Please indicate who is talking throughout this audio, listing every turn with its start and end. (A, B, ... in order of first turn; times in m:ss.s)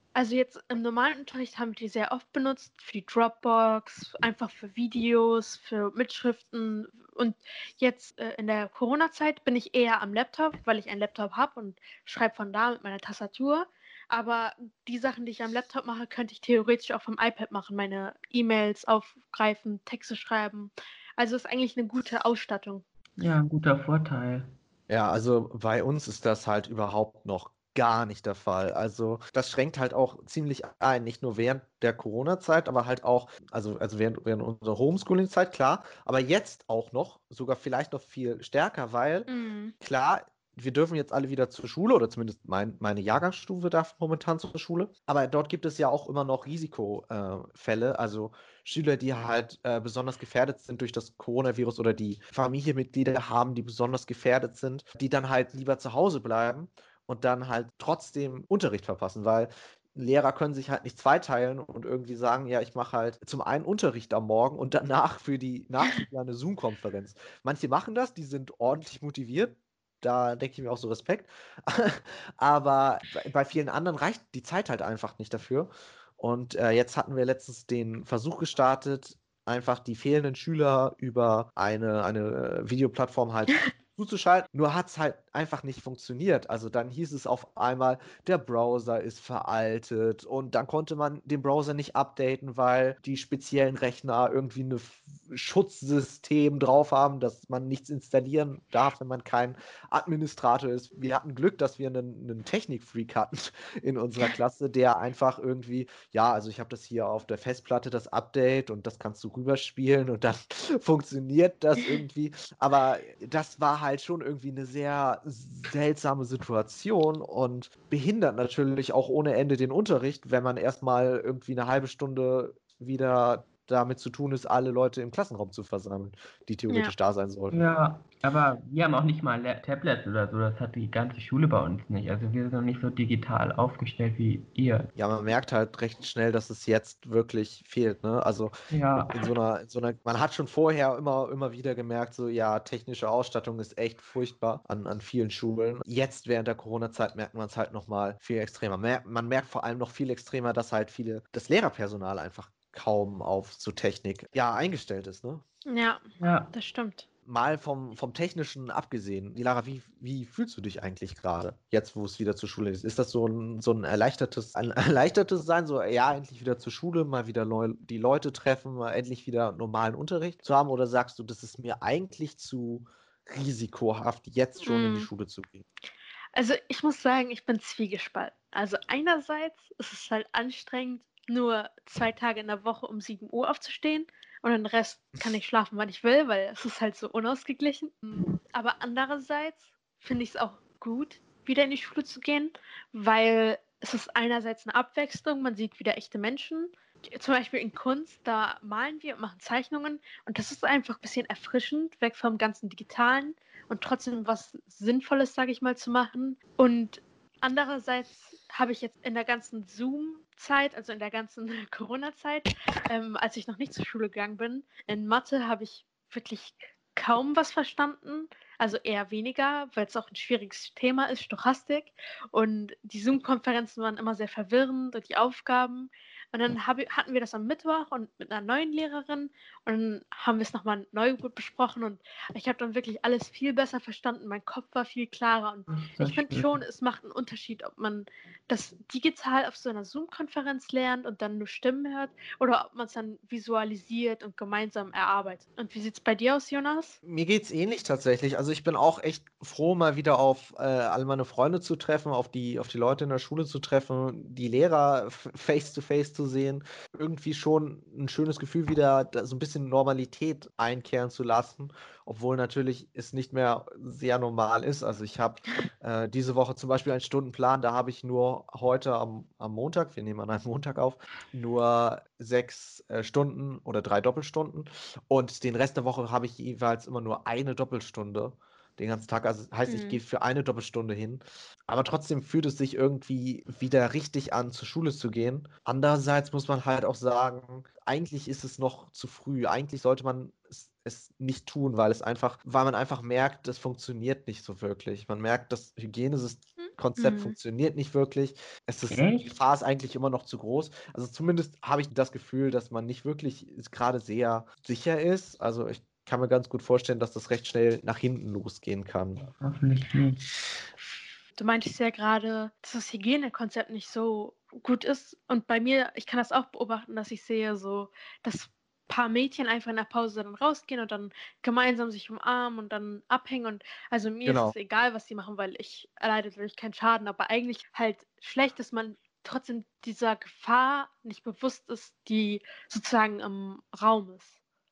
0:00.1-0:22.8 A
0:23.2-0:24.5 B
0:24.9-0:39.3 C
0:39.3-0:39.7 A
0:39.8-2:07.6 C
2:07.5-2:14.9 B
2:15.0-2:18.5 C
2:18.7-2:19.3 B
2:19.1-2:35.4 C
2:35.6-2:37.0 A
2:36.2-2:36.5 B
2:37.2-2:55.6 C
2:54.6-2:55.1 A
2:56.3-4:07.0 A
3:55.7-3:56.6 B
4:07.0-5:09.2 C
4:39.7-4:40.0 A
4:56.6-4:57.3 A
4:58.9-4:59.3 B
5:09.2-5:10.2 B
5:11.4-5:34.4 A
5:24.2-5:24.5 C